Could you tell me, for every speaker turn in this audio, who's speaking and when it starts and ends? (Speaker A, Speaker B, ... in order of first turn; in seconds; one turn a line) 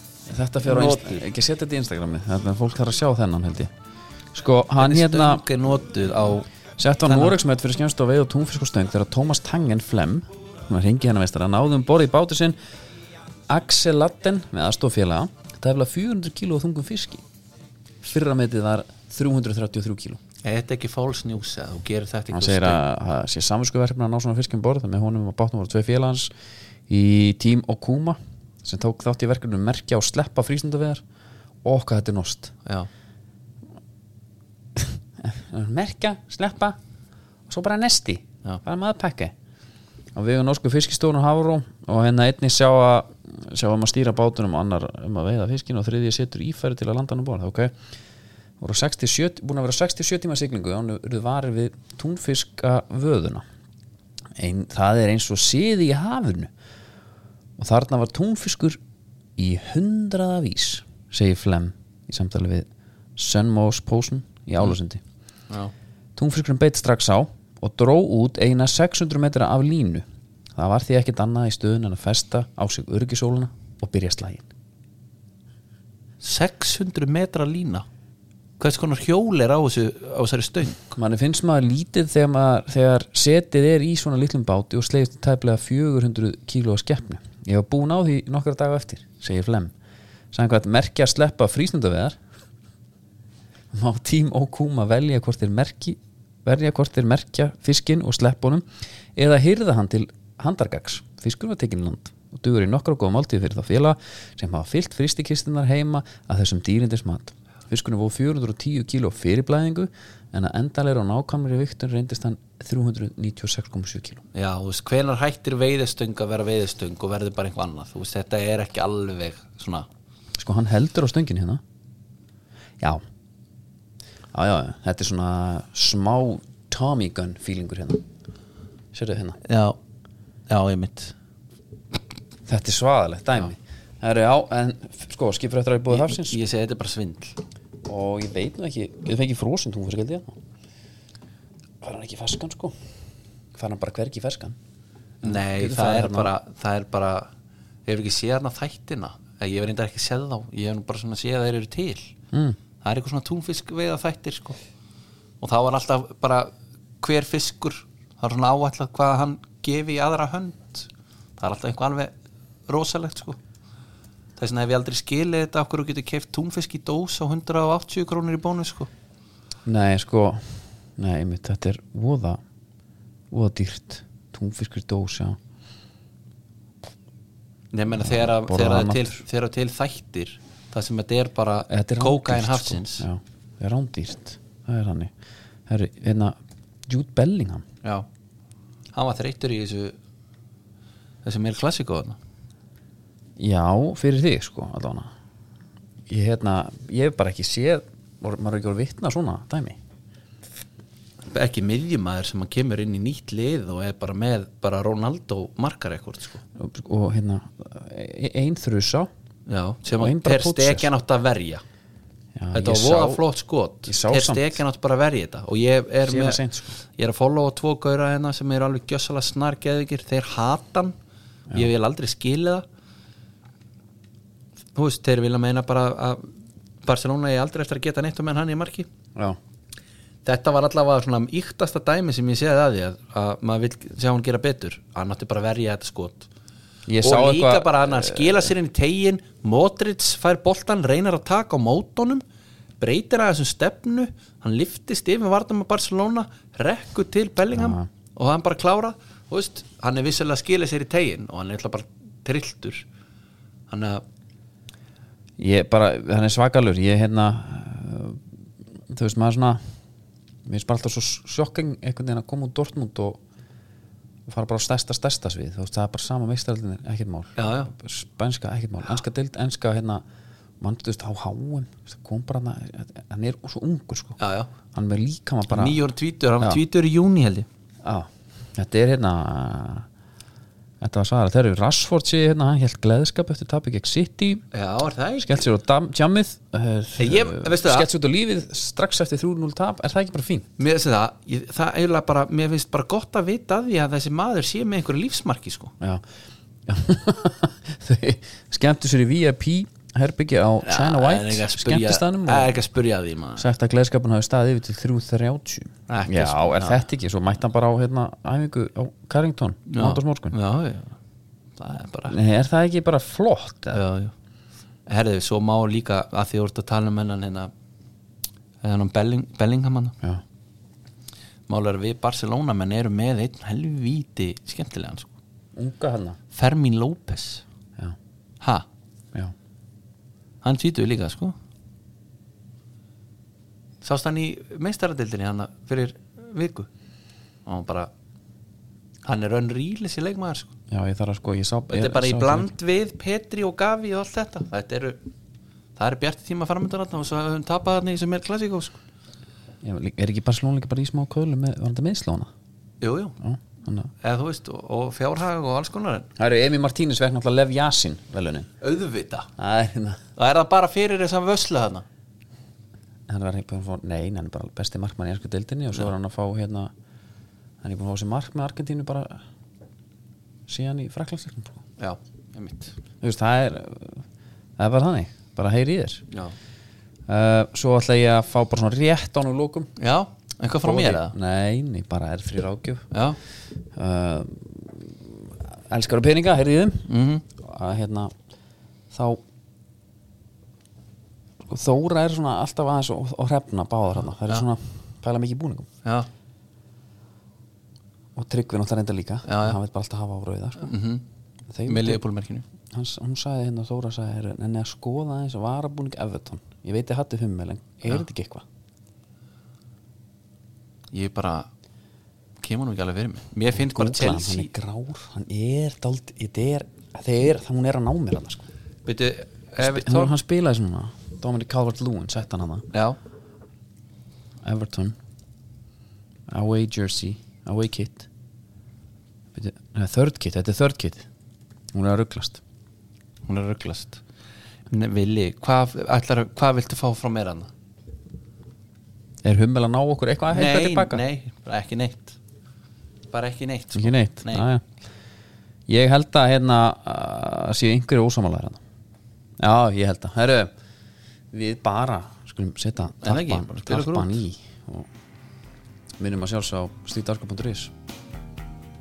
Speaker A: 0.3-3.7
Speaker B: 0.6-1.2
Speaker A: 4.3-5.4
Speaker B: 4.8-6.5
Speaker A: 6.8-12.6
Speaker B: 7.0-7.4
Speaker A: 13.5-17.2
Speaker A: 18.0-20.2
Speaker B: 20.4-22.8
Speaker A: 22.3-26.3
Speaker A: 26.9-31.0
Speaker A: 31.6-32.5
Speaker A: 34.8-36.8
Speaker A: 37.5-39.3
Speaker A: 40.1-47.7
Speaker A: 48.6-53.4
Speaker A: 54.4-56.5
Speaker A: 57.6-58.8
Speaker A: 59.4-65.0
Speaker A: 66.2-74.5
Speaker B: 76.2-77.8
Speaker B: 78.6-81.0
Speaker A: 81.0-89.7
Speaker A: 90.3-92.2
Speaker A: 93.7-114.2
Speaker B: 114.3-119.9
Speaker A: 120.4-121.6
Speaker A: 124.3-128.0
Speaker A: 128.9-129.4
Speaker B: 129.4-129.8
Speaker B: 130.5-131.1
Speaker A: 132.5-136.4
Speaker B: 135.9-137.4
Speaker A: 137.8-140.3
Speaker A: 141.8-142.8
Speaker A: 143.5-144.6
Speaker B: 145.2-147.3
Speaker A: 145.2-146.3
Speaker B: 147.9-152.1
Speaker A: 152.3-152.6
Speaker B: 152.8-154.6
Speaker B: 155.4-162.1
Speaker B: 162.7-163.4
Speaker B: 164.4-168.9
Speaker A: 169.6-172.4
Speaker A: 173.3-175.4
Speaker B: 177.7-183.1
Speaker A: 178.0-179.2
Speaker A: 181.7-185.1
Speaker A: 185.7-186.3
Speaker A: 186.9-187.7
Speaker B: 188.9-189.9
Speaker B: 191.2-192.2
Speaker A: 193.4-195.1
Speaker A: 196.1-199.8
Speaker B: 201.2-206.4
Speaker A: 206.6-209.1
Speaker B: 209.5-211.6
Speaker A: 209.9-210.9
Speaker A: 212.3-213.2
Speaker B: 212.5-220.9
Speaker A: 213.8-214.6
Speaker A: 216.0-216.8
Speaker B: 221.5-222.6
Speaker B: 224.7-226.3
Speaker B: 226.8-228.9
Speaker B: 230.2-236.3
Speaker A: 236.8-238.5
Speaker B: 237.0-242.2
Speaker B: 242.8-252.8
Speaker A: 247.5-247.9
Speaker B: 253.7-254.0
Speaker A: 255.4-258.2
Speaker A: 258.9-259.6
Speaker A: 260.4-263.2
Speaker A: 264.3-270.0
Speaker B: 267.4-267.7
Speaker A: 270.6-274.2
Speaker B: 274.2-274.5
Speaker A: 274.7-275.8
Speaker B: 275.5-277.5
Speaker A: 277.8-279.9
Speaker A: 280.8-284.4
Speaker B: 284.5-285.4
Speaker A: 285.2-290.5
Speaker B: 287.0-287.9
Speaker B: 290.6-295.7
Speaker A: 296.6-302.5
Speaker B: 300.6-303.5
Speaker A: 303.4-310.4
Speaker B: 305.9-306.8
Speaker B: 309.7-311.0
Speaker B: 311.6-312.2
Speaker A: 312.1-313.8
Speaker B: 313.7-314.1
Speaker B: 314.9-317.5
Speaker B: 318.6-320.0
Speaker B: 321.5-325.1
Speaker A: 325.6-326.2
Speaker B: 326.3-327.4
Speaker B: 328.4-328.7
Speaker B: 330.4-331.4
Speaker B: 333.8-336.7
Speaker B: 337.4-337.9
Speaker B: 339.0-340.5
Speaker A: 340.7-342.5
Speaker B: 341.7-345.0
Speaker B: 345.8-348.8
Speaker A: 349.6-352.3
Speaker B: 352.8-353.2
Speaker A: 353.2-353.9
Speaker B: 354.0-356.1
Speaker A: 356.2-358.5
Speaker B: 358.6-359.3
Speaker A: 359.4-360.0
Speaker B: 360.1-361.8
Speaker A: 363.1-366.7
Speaker A: 367.6-369.2
Speaker A: 370.5-371.6
Speaker B: 371.8-372.8
Speaker A: 373.0-374.0
Speaker A: 374.6-376.0
Speaker A: 377.1-379.7
Speaker B: 379.8-381.1
Speaker A: 380.6-382.9
Speaker B: 382.9-383.2
Speaker A: 383.7-388.1
Speaker B: 386.9-387.2
Speaker A: 388.9-389.2
Speaker A: 391.4-395.7
Speaker A: 398.1-400.7
Speaker B: 399.2-399.6
Speaker B: 400.6-401.0
Speaker A: 401.5-402.0
Speaker B: 401.6-402.4
Speaker A: 402.7-408.4
Speaker B: 410.9-411.5
Speaker B: 412.4-414.5
Speaker A: 413.5-418.5
Speaker B: 418.8-420.1
Speaker A: 419.6-422.7
Speaker B: 422.7-423.0
Speaker A: 424.4-424.9
Speaker A: 426.3-428.1
Speaker A: 429.3-431.1
Speaker A: 431.7-432.4
Speaker B: 433.2-434.0
Speaker B: 434.7-437.5
Speaker A: 439.2-441.0
Speaker B: 440.3-442.2
Speaker B: 443.1-444.5
Speaker A: 443.7-444.6
Speaker A: 445.7-448.6
Speaker A: 449.4-450.5
Speaker A: 451.3-454.9
Speaker B: 453.0-454.2
Speaker A: 456.0-457.7